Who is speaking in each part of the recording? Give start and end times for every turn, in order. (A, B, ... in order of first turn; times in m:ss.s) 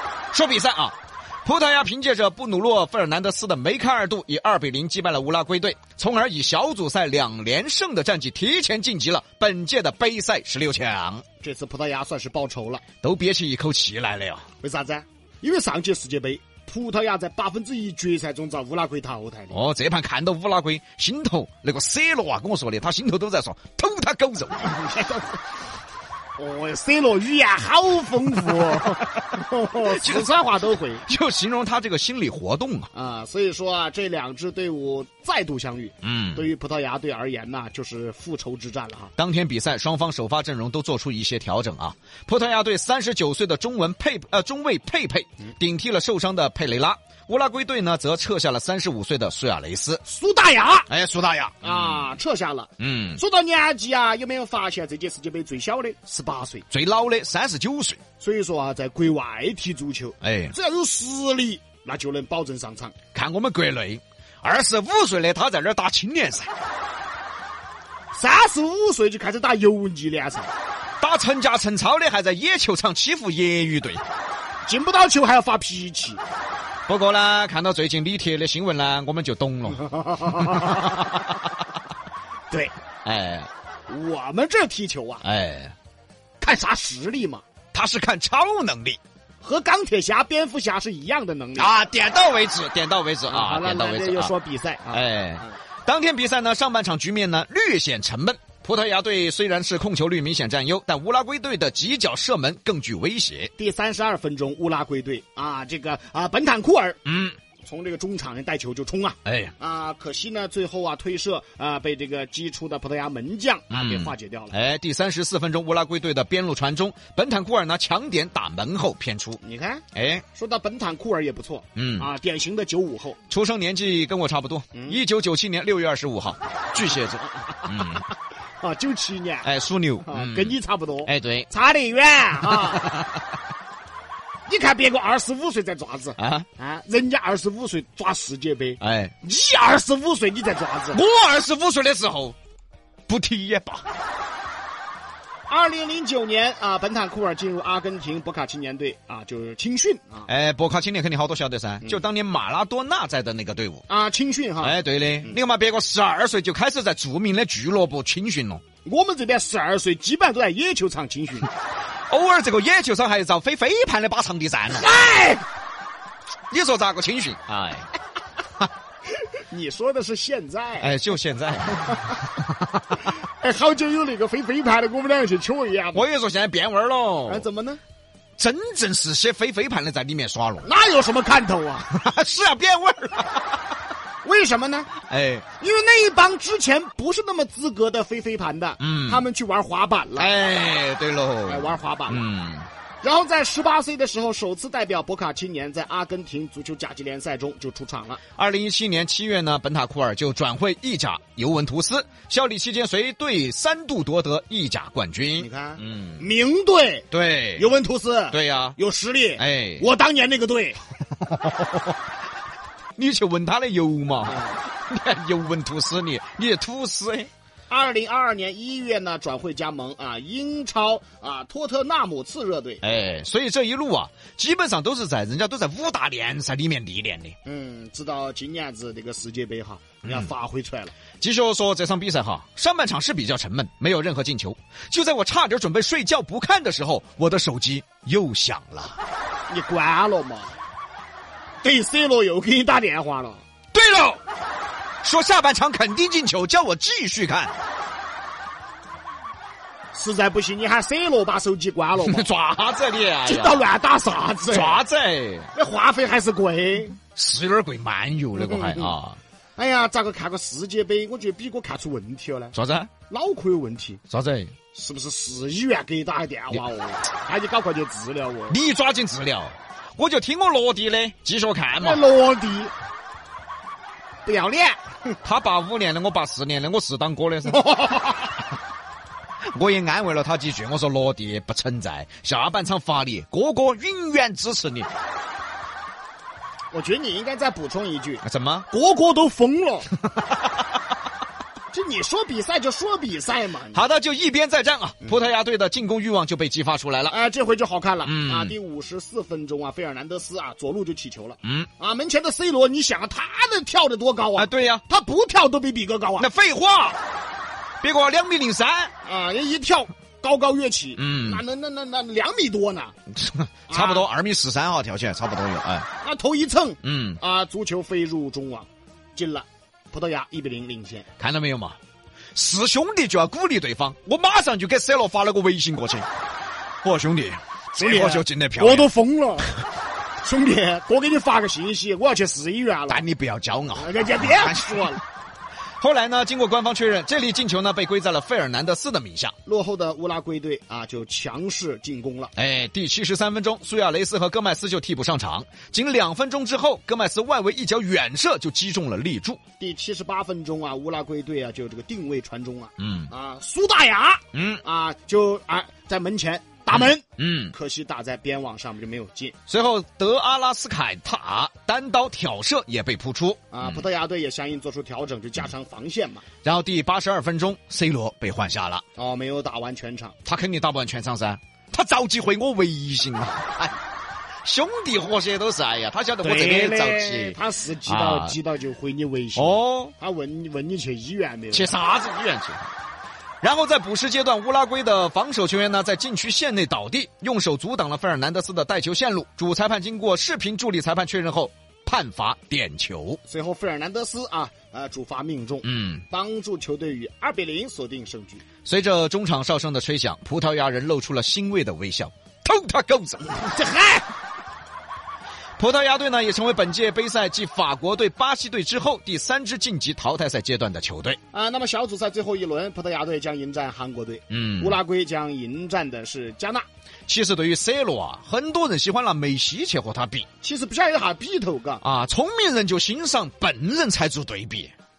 0:00.3-0:11.2 A
0:11.4-0:12.8 B
0:13.0-0:14.5 A
0:14.6-0:19.6 B
0:19.5-0:24.7 A
0:24.6-0:25.4 B
0:26.4-0:31.0 B
0:29.8-0:30.4 A
0:31.0-0:32.9 A
0:32.9-0:39.1 B
0:36.0-0:36.5 A
0:39.2-0:50.0 A
0:50.0-0:50.9 B
0:50.9-0:52.2 A
0:51.6-0:56.7 B
0:52.8-0:53.2 A
0:56.7-0:58.0 A
0:58.2-1:03.0 B
1:00.2-1:00.5 A
1:03.1-1:06.5 A
1:08.1-1:10.5 B
1:11.0-1:14.0 A
1:14.6-1:16.2 B
1:16.9-1:21.1 A
1:19.7-1:21.2 B
1:23.0-1:23.5 A
1:23.9-1:25.2 B
1:25.2-1:25.7 A
1:26.4-1:27.4 B
1:27.7-1:29.0 A
1:29.4-1:31.7 B
1:31.6-1:34.3 A
1:33.3-1:35.5 B
1:34.9-1:43.5 A
1:43.6-1:47.0 B
1:47.1-1:47.4 A
1:47.6-1:54.6 B
1:49.2-1:49.5 A
1:53.7-1:59.4 A
1:59.4-2:03.2 B
2:00.0-2:00.3 A
2:01.8-2:02.1 A
2:03.3-2:08.1 A
2:04.7-2:05.0 B
2:07.4-2:08.0 B
2:08.6-2:09.5 B
2:09.4-2:11.5 A
2:10.0-2:13.0 B
2:12.7-2:13.1 A
2:14.5-2:21.0 B
2:16.2-2:16.5 A
2:18.8-2:19.1 A
2:20.9-2:22.4 A
2:23.1-2:23.8 A
2:25.5-2:30.3 B
2:30.3-2:33.8 A
2:33.9-2:35.4 B
2:34.6-2:38.6 A
2:38.8-2:41.5 B
2:42.1-2:44.9 A
2:44.7-2:45.5 B
2:46.5-2:47.9 A
2:49.5-2:51.0 B
2:50.8-2:52.2 A
2:53.4-2:56.1 B
2:55.9-2:57.5 A
2:57.3-2:57.8 B
2:58.4-3:00.7 A
3:00.6-3:01.9 B
3:01.9-3:03.6 A
3:04.2-3:04.9 B
3:05.0-3:05.5 A
3:05.6-3:10.4 B
3:08.8-3:09.2 A
3:10.2-3:12.7 A
3:11.5-3:12.2 B
3:13.0-3:18.2 B
3:18.4-3:26.2 A
3:25.4-3:30.8 B
3:27.1-3:27.7 A
3:28.3-3:28.8 A
3:29.4-3:29.9 A
3:33.0-3:37.3 A
3:34.3-3:34.5 B
3:37.7-3:42.8 B
3:42.8-3:47.4 A
3:47.4-3:50.9 B
3:50.0-3:50.3 A
3:51.2-3:59.0 A
3:59.5-4:00.5 B
4:01.6-4:03.4 B
4:03.7-4:04.2 A
4:05.0-4:07.5 A
4:09.9-4:12.3 B
4:12.0-4:13.7 A
4:13.2-4:14.8 B
4:14.5-4:15.5 A
4:15.5-4:17.0 B
4:17.2-4:19.2 A
4:18.4-4:19.0 B
4:19.6-4:22.6 B
4:22.5-4:22.9 A
4:23.1-4:24.0 B
4:24.1-4:24.5 A
4:24.7-4:28.6 B
4:28.5-4:32.0 A
4:31.8-4:32.7 B
4:34.2-4:34.8 B
4:35.2-4:37.7 A
4:37.5-4:38.4 B
4:39.6-4:44.9 A
4:46.7-4:49.9 B
4:48.2-4:48.7 A
4:51.7-4:53.8 B
4:53.7-4:57.2 A
4:57.1-5:06.3 B
4:58.0-4:58.5 A
5:01.4-5:01.7 A
5:04.4-5:04.8 A
5:06.2-5:07.0 A
5:07.8-5:08.9 A
5:09.0-5:13.0 B
5:11.0-5:11.4 A
5:13.1-5:15.9 A
5:13.7-5:14.0 B
5:16.0-5:21.1 B
5:16.8-5:17.2 A
5:21.2-5:21.8 A
5:22.4-5:26.1 A
5:26.8-5:28.9 A
5:27.8-5:29.6 B
5:30.2-5:33.0 B
5:32.9-5:35.0 A
5:33.8-5:35.0 B
5:35.8-5:39.3 A
5:39.4-5:42.3 B
5:42.4-5:49.4 A
5:49.6-5:59.4 B
5:52.8-5:53.1 A
5:54.3-5:54.6 A
5:56.7-5:57.5 A
5:59.5-6:03.8 A
6:03.5-6:06.2 B
6:06.4-6:08.8 A
6:09.0-6:10.2 B
6:10.2-6:13.7 A
6:14.4-6:18.4 A
6:16.2-6:21.8 B
6:19.4-6:19.9 A
6:21.5-6:22.6 A
6:23.4-6:33.2 A
6:33.3-6:38.4 B
6:35.6-6:36.0 A
6:38.6-6:43.4 A
6:43.3-6:44.1 B
6:45.6-6:51.2 A
6:51.3-6:56.7 B
6:54.3-6:54.8 A
6:57.1-7:00.3 A
7:00.4-7:01.8 B
7:01.8-7:04.7 A